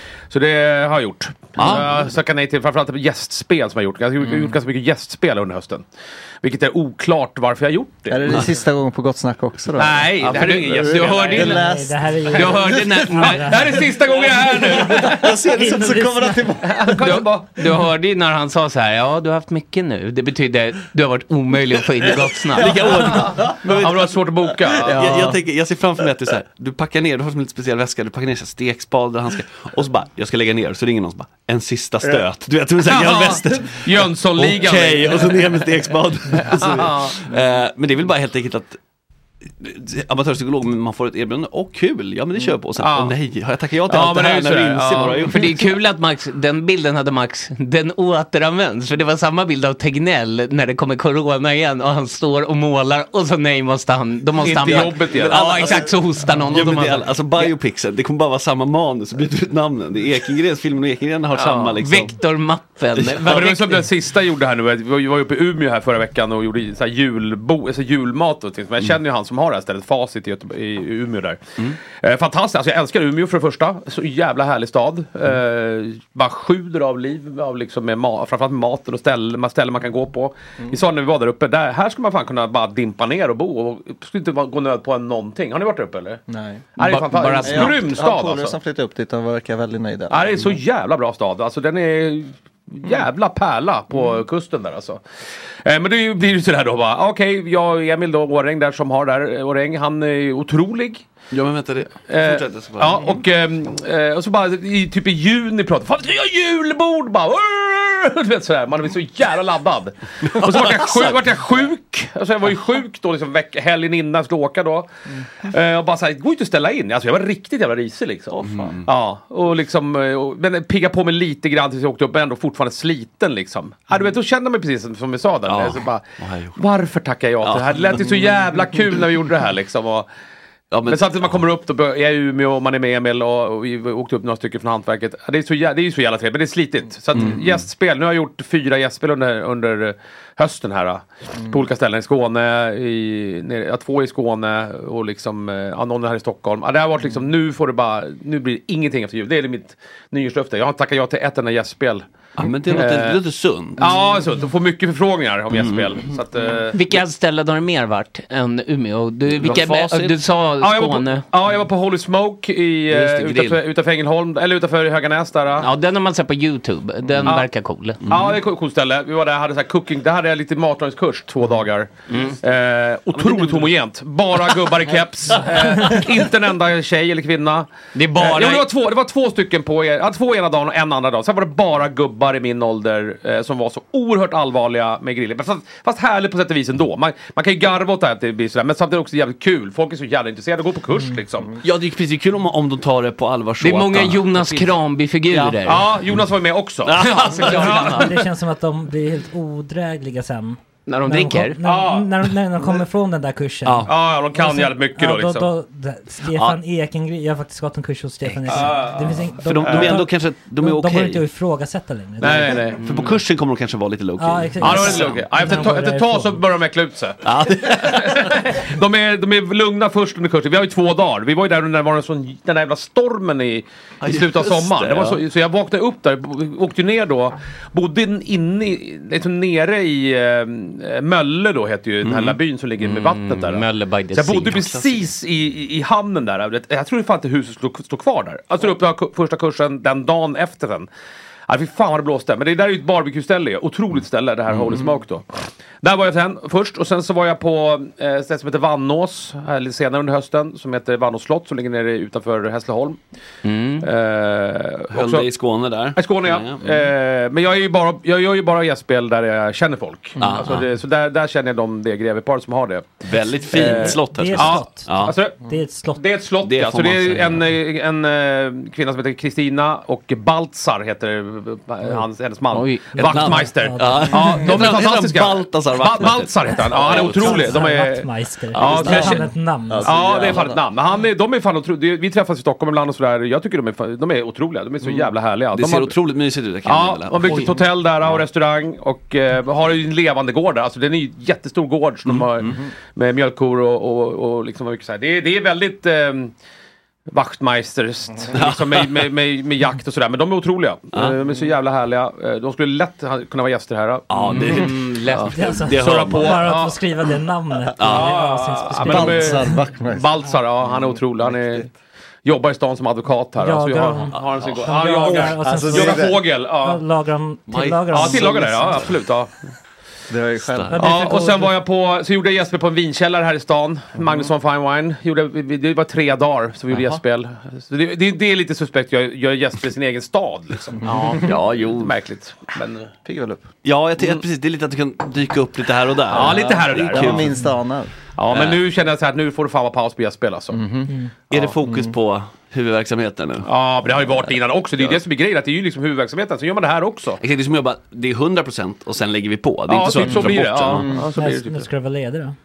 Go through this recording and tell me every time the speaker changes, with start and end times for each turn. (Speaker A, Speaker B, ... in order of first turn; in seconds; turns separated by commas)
Speaker A: 0.3-5.8, Speaker B: 1.6-2.0, Speaker A: 6.4-8.4, Speaker C: 8.1-12.8, Speaker A: 9.8-11.7, Speaker D: 10.3-11.4, Speaker E: 11.3-13.8, Speaker D: 12.3-13.5, Speaker A: 12.3-15.3, Speaker C: 14.8-17.1, Speaker B: 15.2-16.1, Speaker E: 15.5-16.5, Speaker A: 16.6-17.6, Speaker D: 17.0-23.2, Speaker B: 22.5-24.1, Speaker A: 23.2-25.1, Speaker B: 24.8-38.8, Speaker C: 24.9-25.4, Speaker A: 32.8-35.8, Speaker A: 36.3-37.3, Speaker B: 39.6-45.5, Speaker A: 42.7-43.1, Speaker A: 43.8-45.3, Speaker D: 45.3-57.5, Speaker A: 54.4-55.8, Speaker B: 54.5-62.1, Speaker A: 61.3-61.8, Speaker D: 61.8-63.8, Speaker B: 62.9-63.4, Speaker A: 63.2-86.2, Speaker C: 86.3-86.6, Speaker A: 86.8-88.5, Speaker D: 86.8-87.9, Speaker C: 87.4-90.4, Speaker A: 90.1-95.0, Speaker A: 95.6-101.1, Speaker B: 101.3-103.2, Speaker A: 102.1-114.9, Speaker B: 110.4-111.2, Speaker A: 115.5-130.1, Speaker B: 118.3-118.8, Speaker B: 125.5-126.6, Speaker B: 127.4-128.3, Speaker B: 130.7-131.4, Speaker A: 130.8-152.0, Speaker B: 137.1-137.6, Speaker B: 152.4-154.0, Speaker A: 152.6-153.2, Speaker A: 153.8-156.8, Speaker B: 155.5-156.0, Speaker D: 156.7-161.2, Speaker B: 159.3-160.2, Speaker A: 160.6-165.7, Speaker B: 162.9-163.6, Speaker D: 165.6-168.0, Speaker A: 168.1-191.6, Speaker B: 168.1-168.3, Speaker B: 173.1-173.7, Speaker D: 177.9-178.7, Speaker B: 191.6-194.7, Speaker D: 193.6-195.9, Speaker B: 195.3-195.6, Speaker A: 195.6-198.1, Speaker B: 196.8-198.1, Speaker D: 197.0-198.1, Speaker E: 197.9-212.7, Speaker D: 200.9-201.6, Speaker A: 201.6-202.3, Speaker B: 203.6-203.9, Speaker A: 203.8-205.5, Speaker B: 206.3-206.6, Speaker A: 208.5-209.9, Speaker B: 209.4-211.2, Speaker A: 212.2-212.9, Speaker B: 212.8-215.3, Speaker E: 214.2-216.4, Speaker A: 214.6-240.9, Speaker B: 217.2-218.2, Speaker B: 224.0-225.2, Speaker B: 232.0-232.4, Speaker D: 232.8-234.6, Speaker B: 234.5-235.1, Speaker A: 241.5-245.2, Speaker A: 245.8-253.0, Speaker D: 253.4-253.8, Speaker A: 253.8-255.3, Speaker B: 254.9-256.9, Speaker A: 255.9-265.4, Speaker B: 260.2-260.7, Speaker B: 263.1-265.2, Speaker E: 263.6-266.1, Speaker A: 265.9-286.0, Speaker B: 266.4-267.4, Speaker D: 272.5-273.0, Speaker E: 272.9-274.6, Speaker B: 273.0-277.6, Speaker E: 276.7-280.2, Speaker C: 278.9-280.6, Speaker B: 285.5-287.6, Speaker A: 286.6-296.3, Speaker B: 292.1-292.4, Speaker A: 297.1-304.5, Speaker B: 298.3-299.1, Speaker B: 304.1-306.4, Speaker D: 304.3-305.3, Speaker E: 305.3-309.6, Speaker A: 305.7-306.8, Speaker B: 307.8-308.1, Speaker A: 307.8-311.7, Speaker C: 308.8-310.1, Speaker C: 311.2-311.6, Speaker A: 312.2-316.9, Speaker E: 313.4-318.9, Speaker B: 314.2-314.4, Speaker C: 315.1-316.2, Speaker B: 317.5-318.9, Speaker A: 317.9-319.3, Speaker C: 320.1-320.8, Speaker B: 320.4-320.8, Speaker A: 320.8-332.9, Speaker E: 320.8-321.5, Speaker D: 330.9-331.2, Speaker B: 331.1-331.9, Speaker C: 333.0-333.4, Speaker B: 333.6-337.3, Speaker A: 336.1-337.3, Speaker C: 336.1-337.9, Speaker A: 338.2-340.7, Speaker B: 338.3-338.6, Speaker C: 340.5-340.9, Speaker B: 341.3-343.5, Speaker C: 341.6-341.9, Speaker A: 343.4-347.2, Speaker B: 347.2-350.9, Speaker A: 349.7-351.7, Speaker C: 350.7-351.1, Speaker E: 351.1-352.4